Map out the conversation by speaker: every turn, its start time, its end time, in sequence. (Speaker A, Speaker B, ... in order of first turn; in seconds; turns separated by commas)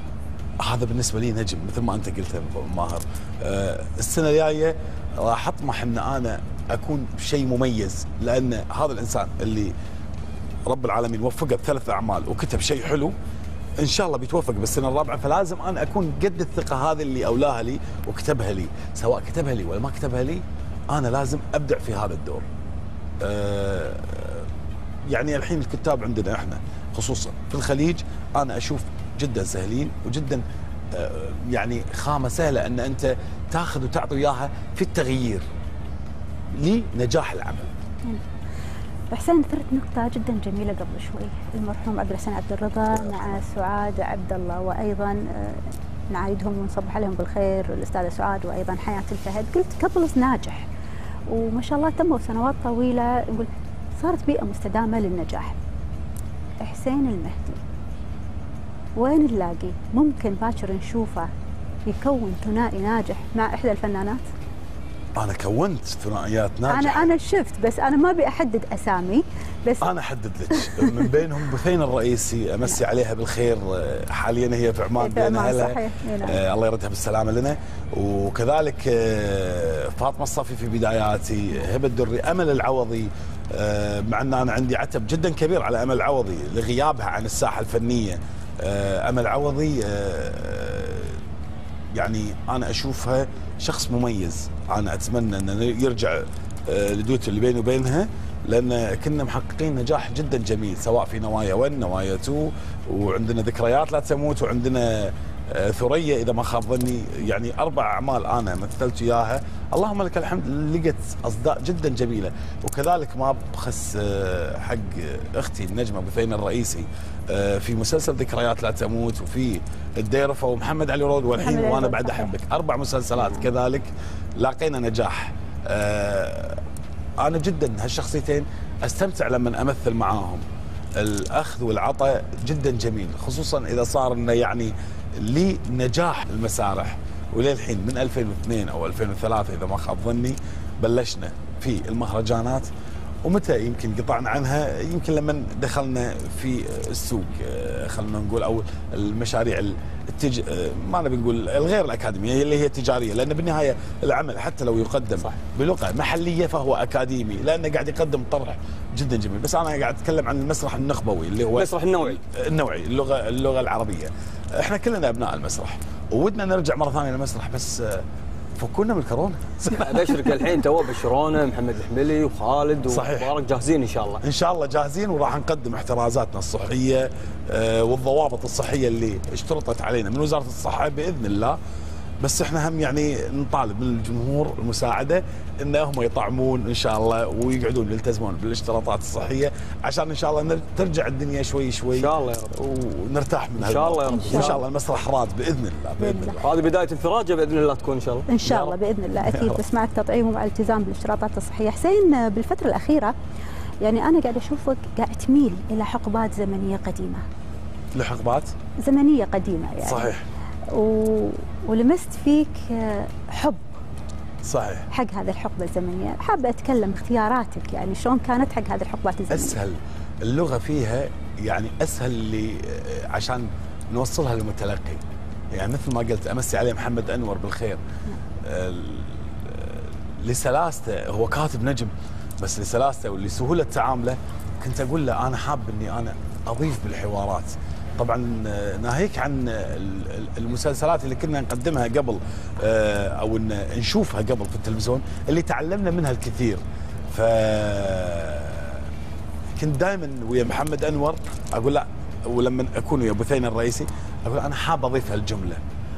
Speaker A: 0.6-9.7, Speaker A: 10.7-13.1, Speaker A: 13.8-22.4, Speaker A: 23.2-24.5, Speaker A: 25.1-35.5, Speaker A: 36.5-37.7, Speaker B: 39.1-50.7, Speaker B: 51.3-55.6, Speaker B: 56.6-57.6, Speaker B: 59.0-61.3, Speaker B: 61.9-64.2, Speaker A: 65.2-67.1, Speaker B: 66.7-69.9, Speaker A: 69.8-91.2, Speaker B: 70.5-71.1, Speaker B: 75.0-76.4, Speaker A: 91.9-126.6, Speaker B: 121.4-122.3, Speaker A: 127.2-130.4, Speaker A: 131.0-142.7, Speaker A: 143.2-168.0, Speaker C: 161.6-162.2, Speaker A: 168.6-170.3, Speaker C: 169.7-174.2, Speaker A: 172.9-173.3, Speaker A: 174.2-181.6, Speaker A: 182.2-196.5, Speaker C: 191.9-192.5, Speaker C: 193.6-194.7, Speaker B: 194.1-194.6, Speaker B: 196.0-196.4, Speaker C: 196.4-198.3, Speaker B: 198.3-203.1, Speaker A: 198.4-199.6, Speaker B: 203.8-207.2, Speaker A: 207.9-208.5, Speaker B: 208.8-210.2, Speaker A: 209.8-210.2, Speaker B: 210.7-213.6, Speaker A: 214.4-214.9, Speaker B: 214.9-219.6, Speaker A: 219.3-227.8, Speaker A: 228.4-248.9, Speaker A: 249.6-255.6